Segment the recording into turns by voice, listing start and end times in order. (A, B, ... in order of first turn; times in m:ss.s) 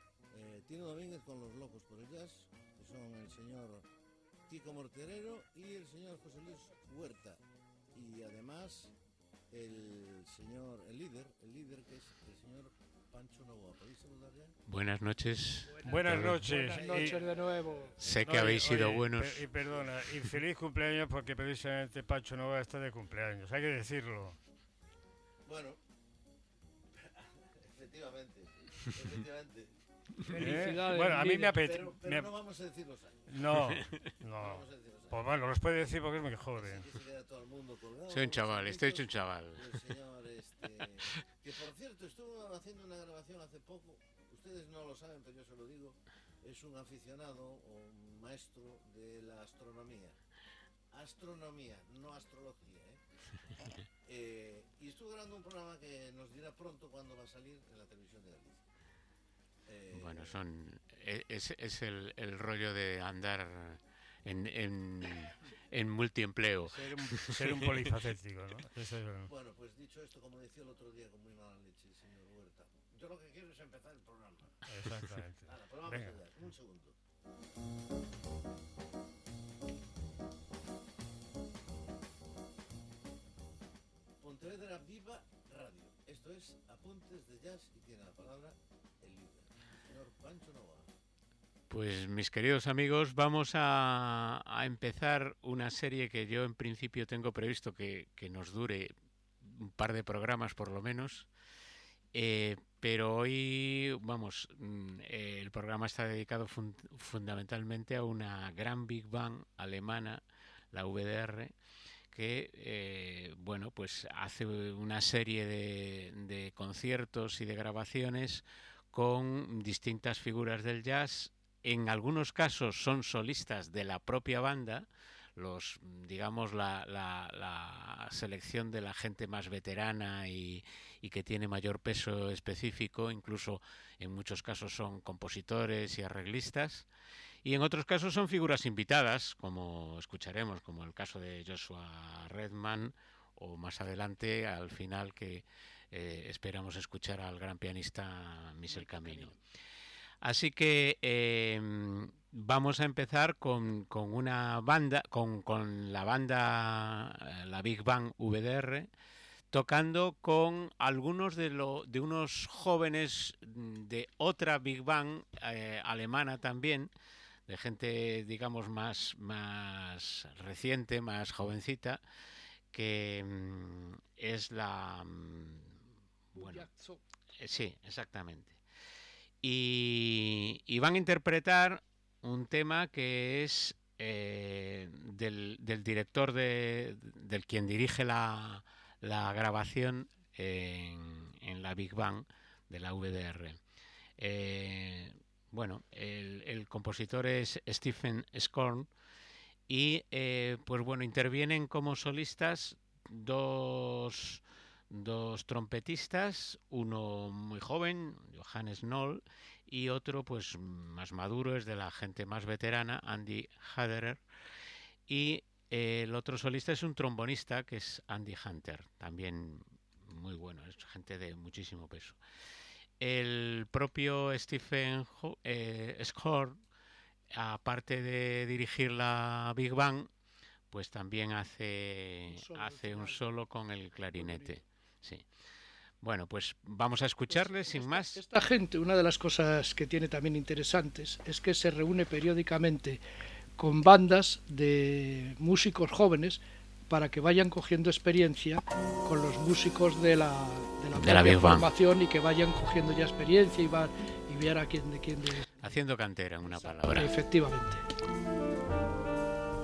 0:00.3-0:03.9 A
0:04.5-0:07.4 A
0:07.9-0:09.0 A
0:09.5-0:14.6 A
0:14.7-0:16.5 B
0:15.7-0:18.0 C
0:15.8-0:17.2 D
0:16.9-0:18.2 A
0:18.0-0:19.5 B
0:18.2-0:24.4 D
0:25.4-0:25.8 A
0:27.0-0:29.8 A
0:30.2-0:31.7 C
0:30.3-0:32.3 D
0:31.6-0:33.6 A
0:33.3-0:36.9 D
0:33.6-0:34.1 B
0:34.4-0:35.2 A
0:36.6-0:50.2 A
0:38.1-0:39.8 B
0:50.9-0:53.0 A
0:53.6-0:58.6 A
0:59.7-1:00.4 A
0:59.9-1:08.0 B
1:06.7-1:09.3 D
1:09.3-1:14.6 A
1:14.7-1:16.1 D
1:15.4-1:17.0 A
1:24.2-1:31.0 A
1:31.7-1:41.3 B
1:42.1-1:51.6 B
1:52.1-2:16.9 B
2:17.4-2:29.4 B
2:28.7-2:29.4 C
2:30.2-2:38.9 B
2:39.5-2:46.9 B
2:47.5-2:52.0 B
2:52.7-2:56.7 B
2:56.4-2:57.0 C
2:57.4-2:58.6 B
2:59.4-3:13.6 B
3:14.2-3:18.9 B
3:19.7-3:34.2 B
3:35.1-3:42.2 B
3:43.0-3:46.6 B
3:47.3-3:50.1 B
3:50.7-3:55.3 B
3:52.3-3:53.4 C
3:54.1-3:54.6 C
3:56.0-3:58.2 B
3:57.3-4:03.0 C
4:03.6-4:15.6 C
4:11.0-4:11.7 B
4:15.6-4:17.2 B
4:16.5-4:17.8 C